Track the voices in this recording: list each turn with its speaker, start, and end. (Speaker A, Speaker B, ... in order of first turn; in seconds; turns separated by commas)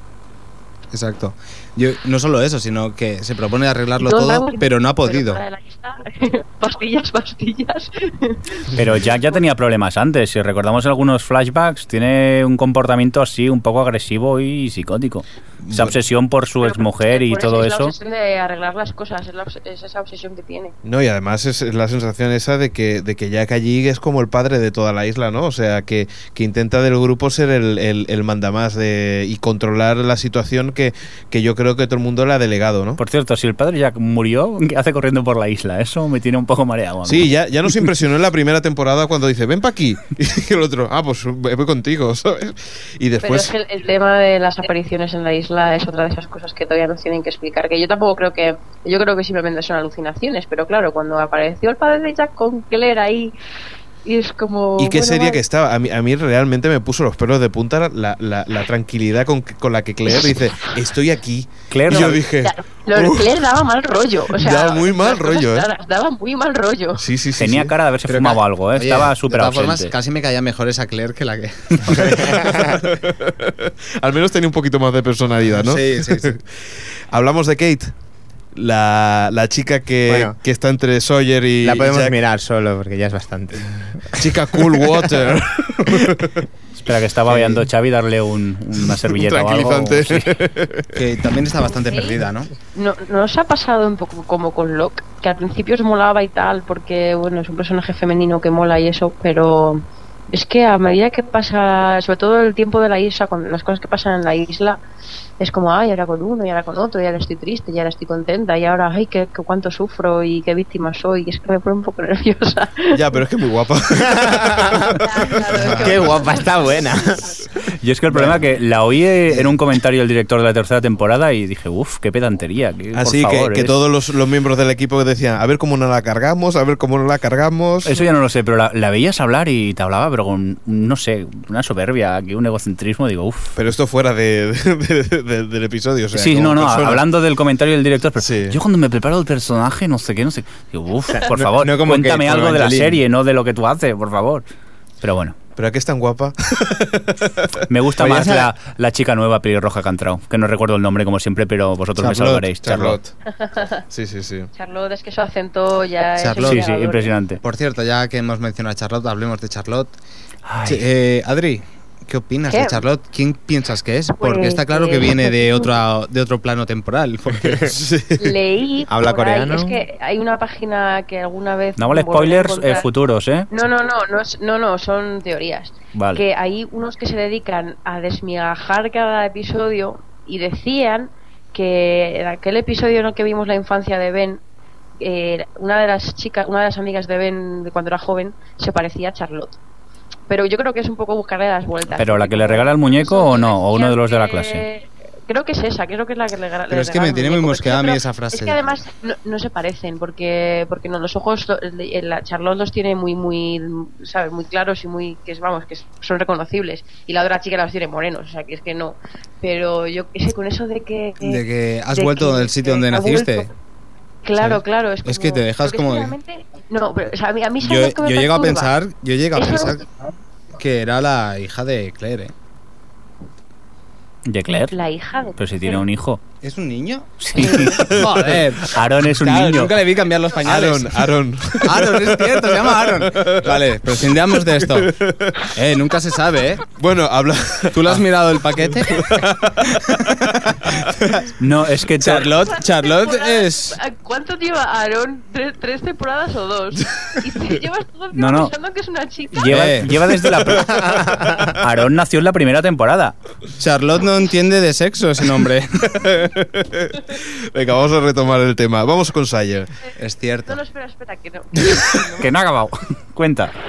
Speaker A: 0.9-5.4, Speaker B: 4.0-9.4, Speaker C: 8.8-17.9, Speaker D: 15.6-16.0, Speaker B: 16.6-20.7, Speaker D: 20.8-33.0, Speaker C: 33.0-37.3, Speaker D: 37.0-43.5, Speaker B: 43.2-53.4, Speaker B: 54.0-55.4, Speaker D: 54.8-63.4, Speaker C: 61.7-62.2, Speaker B: 62.4-67.0, Speaker D: 64.4-65.7, Speaker D: 67.0-67.7, Speaker C: 67.4-69.9, Speaker A: 68.1-72.6, Speaker D: 71.9-77.9, Speaker A: 75.5-76.4, Speaker D: 78.5-82.2, Speaker E: 80.1-80.4, Speaker E: 81.6-84.8, Speaker D: 84.2-86.5, Speaker C: 86.8-90.3, Speaker D: 87.3-87.6, Speaker D: 88.8-91.0, Speaker A: 90.9-92.5, Speaker B: 91.7-92.2, Speaker B: 92.7-104.8, Speaker B: 105.4-113.0, Speaker D: 112.9-115.0, Speaker E: 114.1-114.8, Speaker B: 114.8-116.6, Speaker D: 115.6-116.1, Speaker E: 115.8-117.4, Speaker C: 117.8-123.8, Speaker D: 123.0-127.9, Speaker C: 127.8-133.6, Speaker D: 133.6-137.0, Speaker C: 136.1-144.4, Speaker D: 138.2-138.6, Speaker E: 141.1-143.0, Speaker C: 145.0-145.3, Speaker D: 145.6-148.2, Speaker C: 147.7-153.0, Speaker A: 148.0-148.4, Speaker A: 152.0-152.5, Speaker D: 152.1-153.1, Speaker B: 153.3-153.8, Speaker D: 153.8-154.5, Speaker B: 154.6-157.1, Speaker A: 156.2-156.6, Speaker C: 156.4-157.4, Speaker A: 157.4-159.9, Speaker C: 160.5-160.8, Speaker A: 160.6-167.7, Speaker B: 162.5-162.8, Speaker B: 164.2-165.7, Speaker D: 167.7-168.4, Speaker B: 168.2-172.9, Speaker E: 168.9-169.8, Speaker C: 171.8-173.5, Speaker B: 173.5-184.4, Speaker C: 175.9-176.2, Speaker B: 185.0-189.6, Speaker B: 190.3-211.4, Speaker C: 192.0-194.7, Speaker A: 196.7-198.8, Speaker A: 211.2-213.5, Speaker B: 211.9-213.5, Speaker B: 214.2-218.7, Speaker A: 214.4-216.2, Speaker A: 217.6-219.8, Speaker B: 219.3-219.9, Speaker A: 220.5-222.3, Speaker C: 224.3-224.7, Speaker B: 224.5-225.8, Speaker C: 225.4-226.2, Speaker A: 226.4-234.9, Speaker C: 227.2-228.1, Speaker B: 227.4-227.7, Speaker D: 227.6-229.5, Speaker C: 228.7-229.7, Speaker D: 230.4-235.6, Speaker A: 235.5-236.7, Speaker D: 236.8-241.0, Speaker A: 237.7-241.3, Speaker C: 241.4-242.3, Speaker A: 242.0-243.8, Speaker B: 242.4-249.5, Speaker D: 246.9-247.2, Speaker C: 248.1-248.5, Speaker C: 249.4-253.2, Speaker A: 249.5-249.9, Speaker D: 250.5-251.5, Speaker A: 250.5-251.4, Speaker A: 253.6-256.0, Speaker D: 255.9-259.7, Speaker A: 260.0-260.6, Speaker B: 260.5-262.3, Speaker C: 262.2-263.5